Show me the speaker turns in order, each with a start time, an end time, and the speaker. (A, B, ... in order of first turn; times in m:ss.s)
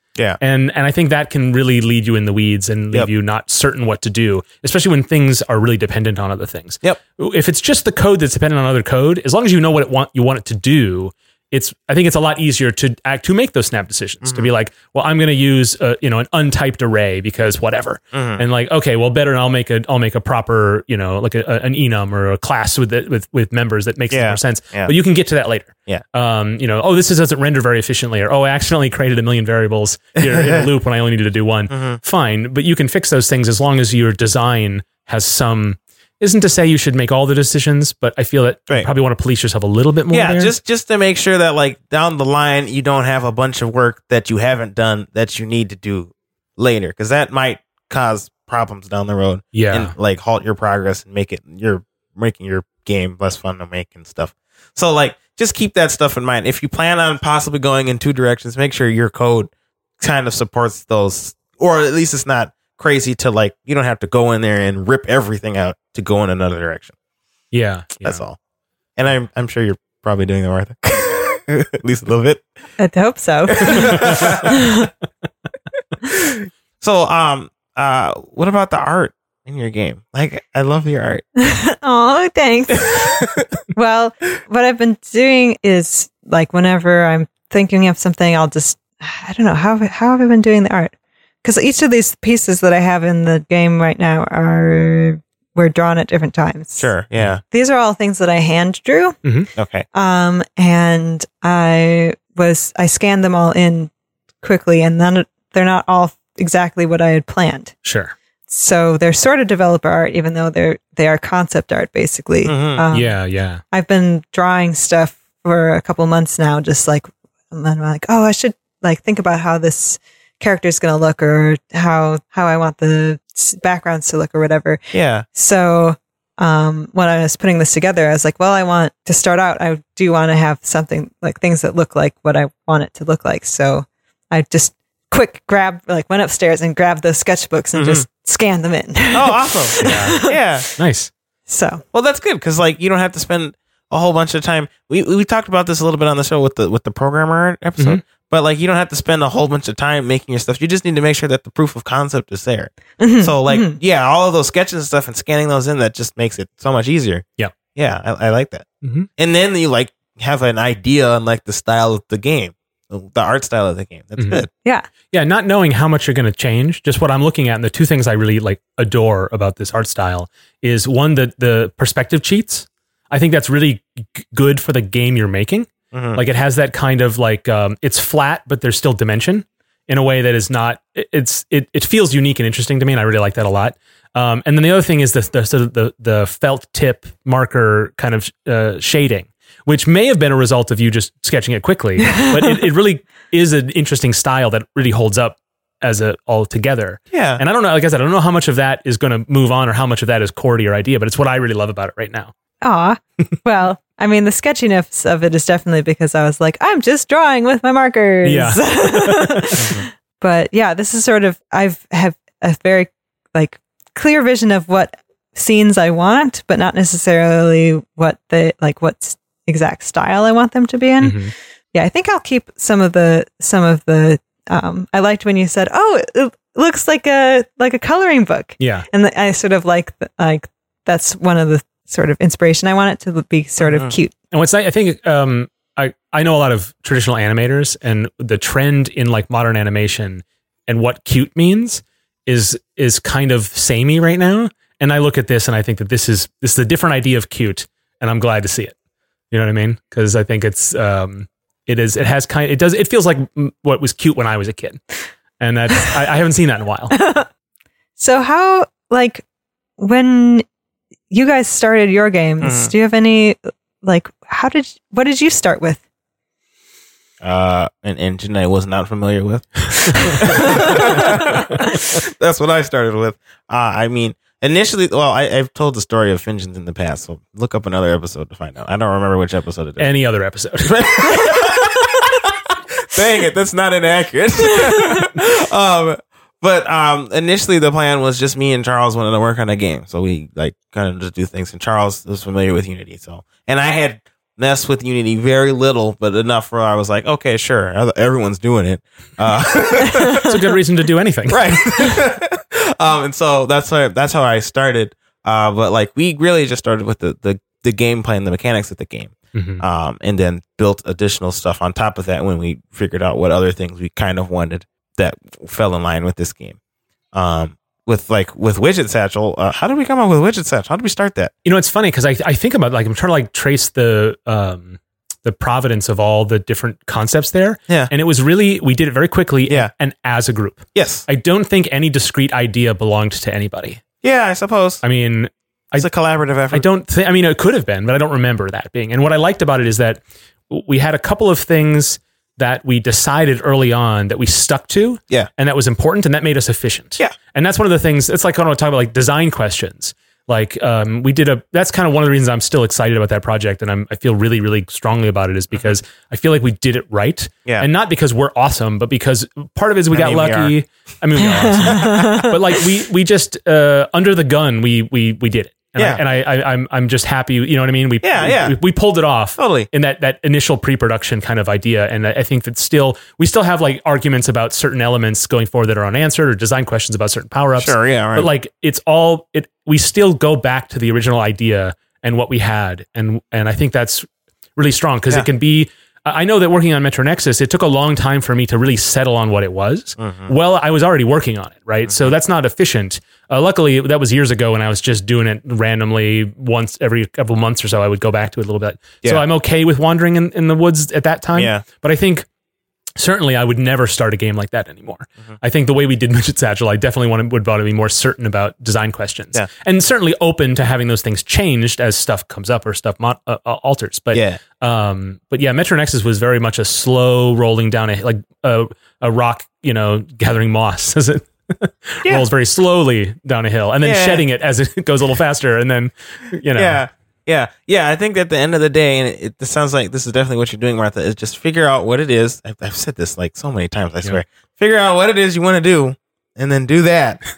0:00.4-0:40.5 A
0:14.2-0:14.5 B
0:18.1-0:18.4 B
0:24.1-0:24.9 B
0:30.2-0:30.7 B
0:31.7-0:32.0 B
0:40.1-1:06.9 B
0:49.5-0:49.9 A
1:07.5-1:08.2 A
1:08.0-1:08.4 B
1:09.0-1:12.4 B
1:12.8-1:14.9 C
1:13.5-1:14.5 B
1:13.8-1:14.4 A
1:16.1-1:21.2 B
1:21.4-1:23.2 C
1:23.7-1:36.9 C
1:36.8-1:37.4 B
1:37.5-1:39.2 C
1:39.2-1:39.5 A
1:39.6-1:39.9 B
1:39.9-1:43.9 C
1:44.4-1:47.7 C
1:47.8-1:48.1 A
1:48.5-1:53.2 C
1:52.5-1:52.8 B
1:52.9-1:53.6 A
1:53.7-2:04.8 C
2:04.9-2:05.3 B
2:05.3-2:20.7 C
2:17.7-2:18.1 B
2:19.1-2:20.7 B
2:19.8-2:20.2 A
2:20.8-2:21.1 A
2:21.5-2:21.8 C
2:21.9-2:38.7 B
2:33.0-2:33.8 C
2:38.8-2:39.1 A
2:39.2-2:44.5 B
2:44.2-2:44.4 A
2:45.1-3:22.3 A
2:55.9-2:56.2 B
3:17.1-3:17.4 B
3:22.6-3:41.2 C
3:28.2-3:29.6 A
3:41.0-3:41.3 A
3:41.7-3:54.1 C
3:48.6-3:48.9 A
3:54.3-4:08.8 A
4:09.3-4:14.8 A
4:15.4-4:17.0 A
4:16.9-4:17.3 C
4:18.0-4:19.2 C
4:19.8-4:20.4 C
4:21.1-4:25.8 C
4:22.4-4:22.7 B
4:27.2-4:39.9 B
4:30.2-4:31.0 C
4:39.8-4:41.5 A
4:40.6-5:00.4 B
5:00.0-5:00.3 C
5:00.2-5:02.1 A
5:01.3-5:16.6 B
5:09.3-5:09.6 A
5:17.1-5:21.3 B
5:21.4-5:33.8 A
5:30.8-5:31.1 B
5:34.0-5:34.8 B
5:34.8-5:35.9 A
5:35.8-5:36.7 B
5:36.5-6:42.3 A
5:55.5-5:55.8 B
5:59.9-6:00.5 B
6:01.2-6:02.3 C
6:08.0-6:08.6 B
6:09.4-6:09.7 B
6:17.6-6:18.3 B
6:30.0-6:30.3 B
6:31.8-6:32.1 B
6:41.4-6:41.6 B
6:43.0-7:06.8 A
6:54.1-6:54.4 B
7:03.8-7:04.2 B
7:06.5-7:17.2 B